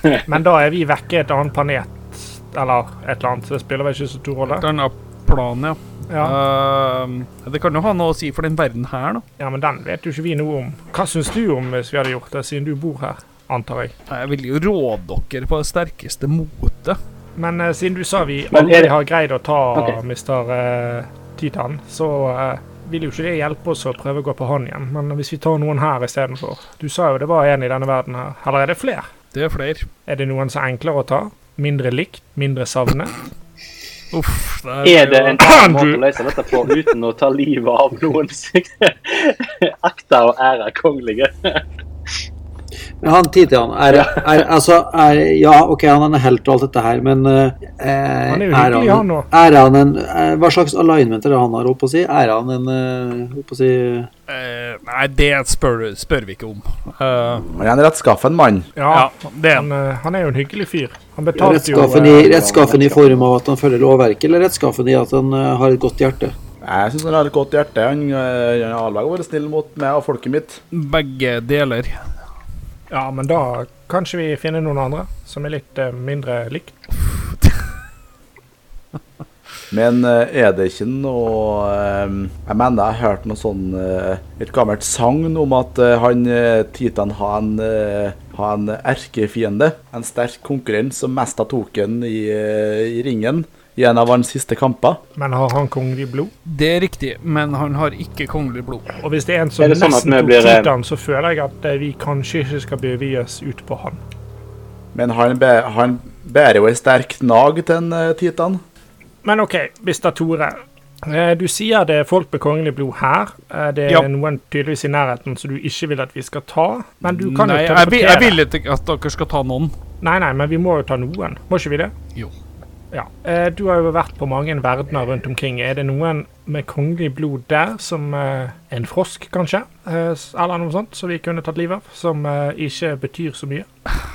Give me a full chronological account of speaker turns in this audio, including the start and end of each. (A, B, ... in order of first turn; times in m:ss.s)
0:00.3-0:04.7 A
0:04.5-0:09.2 B
0:06.1-0:06.4 A
0:09.4-0:13.9 A
0:14.1-0:17.0 B
0:17.4-0:29.1 A
0:18.5-0:18.9 C
0:29.3-0:29.9 B
0:30.1-0:33.2 A
0:34.1-0:35.4 B
0:34.8-0:41.6 C
0:35.4-0:36.0 A
0:43.0-0:54.1 D
0:43.9-0:44.4 C
0:48.3-0:49.3 A
0:54.3-0:57.5 B
0:57.5-0:58.7 E
0:58.8-1:02.4 A
0:58.9-0:59.7 B
1:01.4-1:06.4 D
1:02.0-1:03.1 C
1:06.6-1:10.6 E
1:10.7-1:12.0 B
1:12.9-1:16.8 A
1:19.7-1:35.0 E
1:35.2-1:36.3 A
1:36.5-1:38.9 B
1:39.0-1:44.0 A
1:39.6-1:40.7 C
1:45.0-1:48.6 E
1:49.2-1:58.4 A
1:57.0-1:59.7 B
2:00.0-2:01.9 A
2:02.9-2:13.7 A